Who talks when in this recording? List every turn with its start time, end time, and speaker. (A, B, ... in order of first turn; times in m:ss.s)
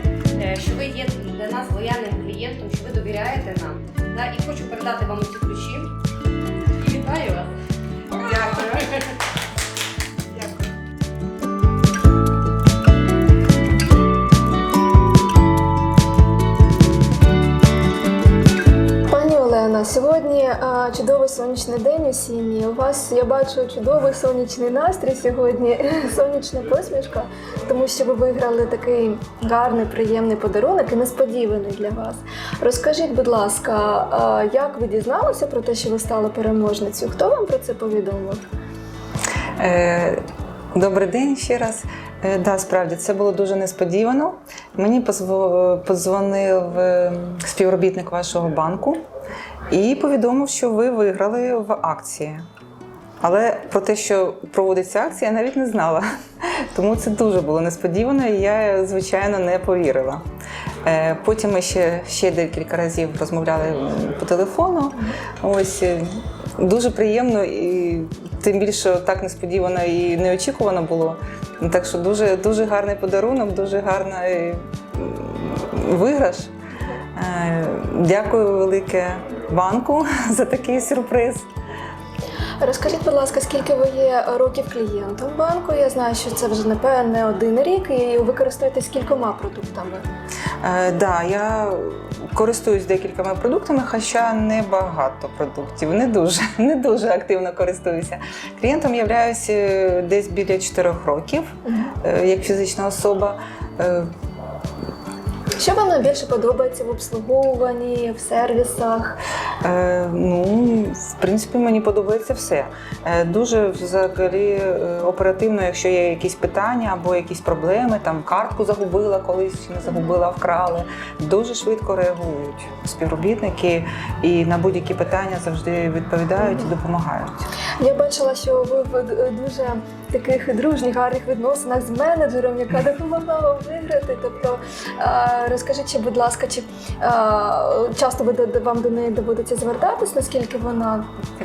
0:00.4-0:05.9 A
0:06.7-0:07.5 A
0:08.1-0:09.1 A
0:19.1-0:38.4 B
0:39.6-0:40.2 C
0:40.7-0:49.0 C
0:49.7-0:52.4 C
0:53.2-1:00.2 C
1:00.8-1:16.5 C
1:17.2-1:21.5 C
1:22.6-1:30.0 B
1:30.6-1:44.1 C
1:41.7-1:41.9 B
1:45.6-1:49.2 B
1:49.6-2:07.5 C
2:07.8-2:21.1 B